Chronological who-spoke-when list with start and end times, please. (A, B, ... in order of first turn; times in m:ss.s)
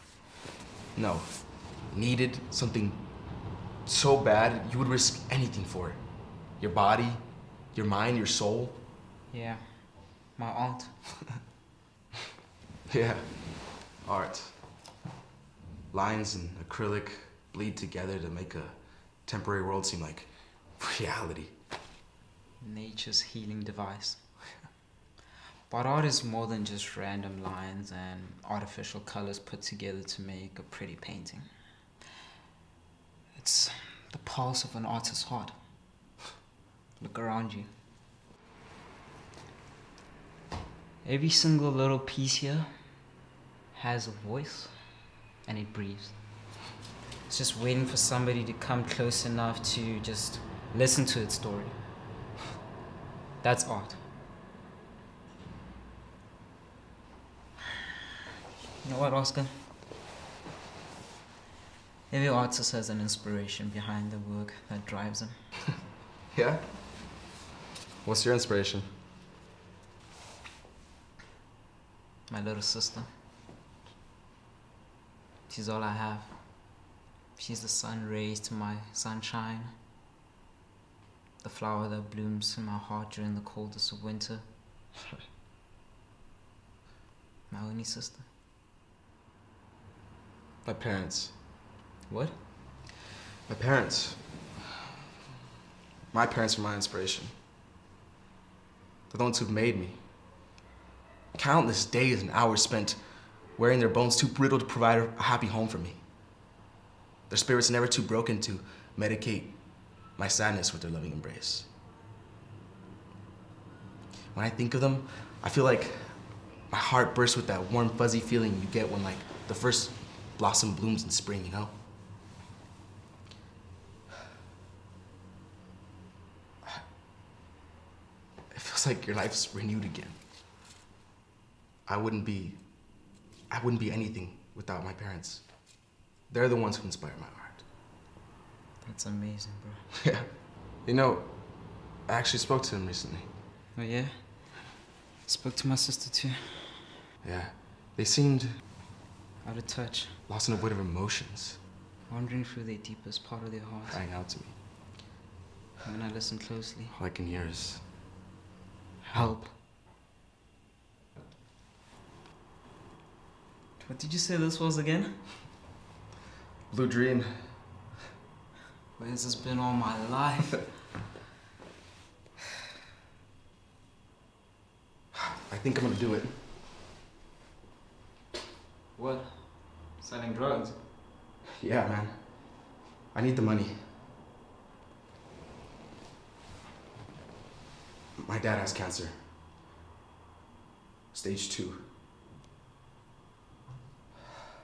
0:00.9-0:08.8 A
0:09.3-0:10.9 B
0:12.9-0:14.6 A
0:15.9-0:21.5 A
0:22.6-0:24.2 B
0:25.7-0:31.5 B
0:33.3-0:35.6 B
0:37.0-0:37.7 B
0:41.0-0:42.7 B
0:43.7-0:44.7 B
0:45.4-0:46.2 B
0:47.3-0:51.8 B
0:53.4-0:54.0 B
0:58.8-0:59.5 B
1:02.1-1:05.4 B
1:06.3-1:06.6 A
1:08.0-1:08.8 A
1:12.3-1:13.1 B
1:15.5-1:16.8 B
1:17.4-1:19.7 B
1:21.4-1:24.4 B
1:27.5-1:28.2 B
1:30.6-1:31.3 A
1:32.1-1:32.4 B
1:33.5-1:34.4 A
1:36.1-1:37.3 A
1:39.1-1:40.0 A
1:41.3-1:46.0 A
1:47.3-1:51.7 A
1:54.3-2:01.7 A
2:08.5-2:10.2 A
2:11.8-2:17.6 A
2:18.8-2:19.8 B
2:20.0-2:23.2 A
2:23.7-2:24.7 B
2:25.2-2:26.9 B
2:27.2-2:28.6 A
2:29.4-2:30.2 B
2:30.3-2:31.6 A
2:32.1-2:34.0 B
2:33.9-2:34.5 A
2:35.8-2:36.9 B
2:36.9-2:37.8 A
2:39.0-2:39.5 B
2:39.1-2:39.4 A
2:43.8-2:45.2 B
2:46.7-2:47.7 A
2:49.0-2:50.7 B
2:55.1-2:56.4 A
2:58.9-3:00.8 B
3:01.6-3:03.8 A
3:08.2-3:09.1 A
3:11.1-3:11.8 A